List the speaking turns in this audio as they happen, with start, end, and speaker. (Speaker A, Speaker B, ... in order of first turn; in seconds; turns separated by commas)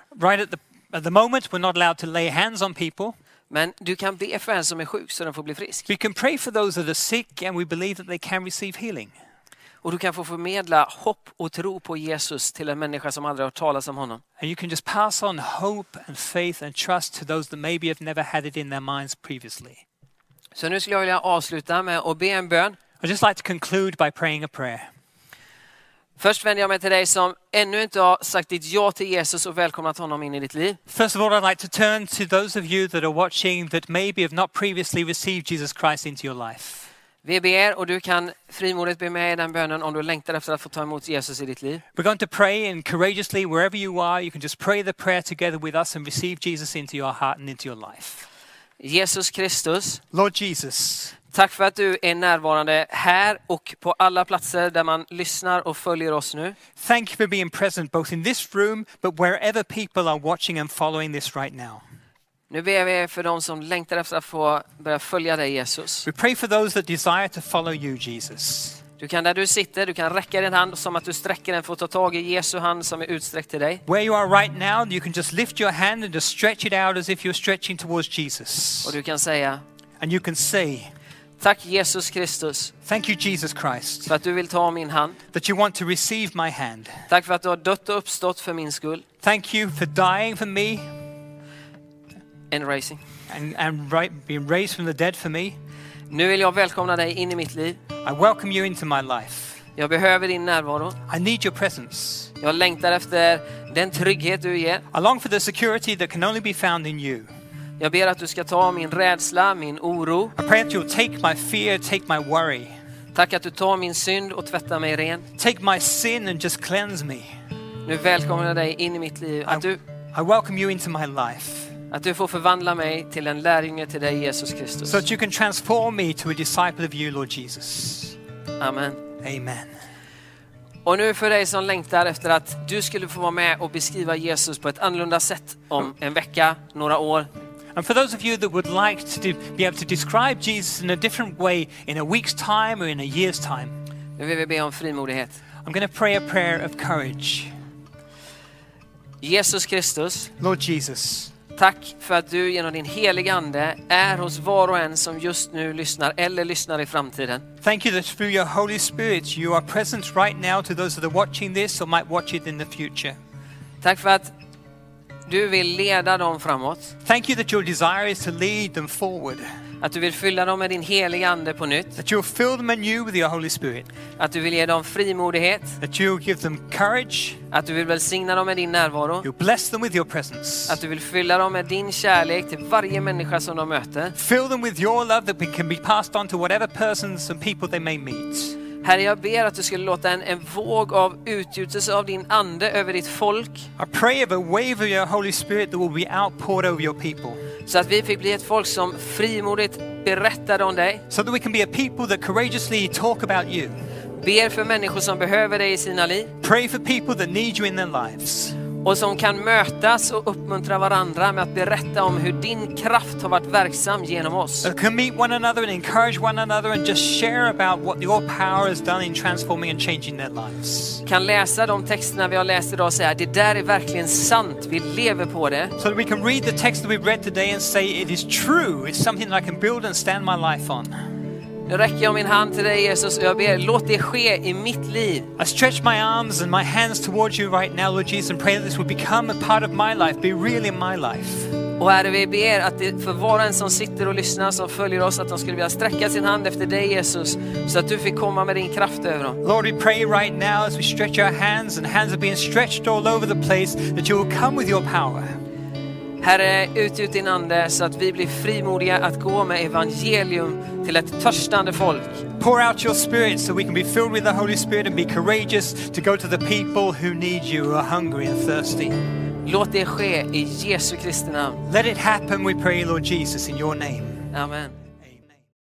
Speaker A: 0.1-3.2, Speaker B: 3.5-5.9, Speaker A: 5.9-9.1, Speaker B: 9.8-14.2, Speaker A: 14.4-19.8, Speaker B: 20.6-22.8, Speaker A: 23.0-24.9, Speaker B: 26.2-30.8, Speaker A: 30.9-36.9, Speaker B: 37.2-41.8, Speaker A: 42.0-48.3, Speaker B: 48.8-50.0, Speaker A: 50.1-51.1, Speaker B: 51.3-56.6, Speaker A: 56.8-61.8, Speaker B: 62.5-66.1, Speaker A: 66.0-68.8, Speaker B: 69.0-73.8, Speaker A: 73.9-79.0, Speaker B: 78.8-79.6, Speaker A: 80.0-80.9, Speaker B: 81.4-82.7, Speaker A: 82.9-84.1, Speaker B: 84.1-85.2, Speaker A: 85.3-87.0, Speaker B: 87.1-89.0, Speaker A: 89.2-90.9, Speaker B: 92.5-93.0, Speaker A: 93.3-95.6, Speaker B: 96.1-97.8, Speaker A: 98.0-99.6, Speaker B: 99.8-101.0, Speaker A: 101.1-102.3, Speaker B: 102.4-104.8, Speaker A: 104.9-107.3, Speaker B: 107.8-110.3, Speaker A: 110.4-112.7, Speaker B: 113.1-115.2, Speaker A: 115.4-117.3, Speaker B: 117.8-119.8, Speaker A: 119.5-121.7, Speaker B: 121.9-125.0, Speaker A: 124.9-128.2, Speaker B: 128.6-129.0, Speaker A: 129.2-129.7, Speaker B: 130.8-137.3, Speaker A: 137.8-143.8, Speaker B: 144.2-145.4, Speaker A: 145.7-147.5, Speaker B: 149.2-150.3, Speaker A: 150.4-151.3, Speaker B: 151.6-157.4, Speaker A: 157.6-163.2, Speaker B: 163.8-164.3, Speaker B: 165.3-166.9, Speaker A: 167.1-169.5, Speaker B: 169.8-172.0, Speaker A: 172.0-173.9, Speaker B: 174.2-175.8, Speaker A: 175.8-177.4, Speaker B: 177.5-179.3, Speaker A: 179.2-180.8, Speaker B: 180.7-184.2, Speaker A: 184.2-188.6, Speaker B: 188.8-193.7, Speaker A: 193.8-197.4, Speaker B: 197.7-201.0, Speaker A: 201.1-203.8, Speaker B: 204.2-206.3, Speaker A: 206.4-208.6, Speaker B: 208.8-214.7, Speaker A: 214.6-221.0, Speaker B: 221.1-225.8, Speaker A: 225.8-231.0, Speaker B: 231.7-235.3, Speaker A: 235.4-241.5, Speaker B: 241.8-249.4, Speaker A: 249.4-255.4, Speaker B: 256.2-262.2, Speaker A: 262.4-269.0, Speaker B: 269.4-271.6, Speaker A: 271.7-274.3, Speaker B: 274.3-274.8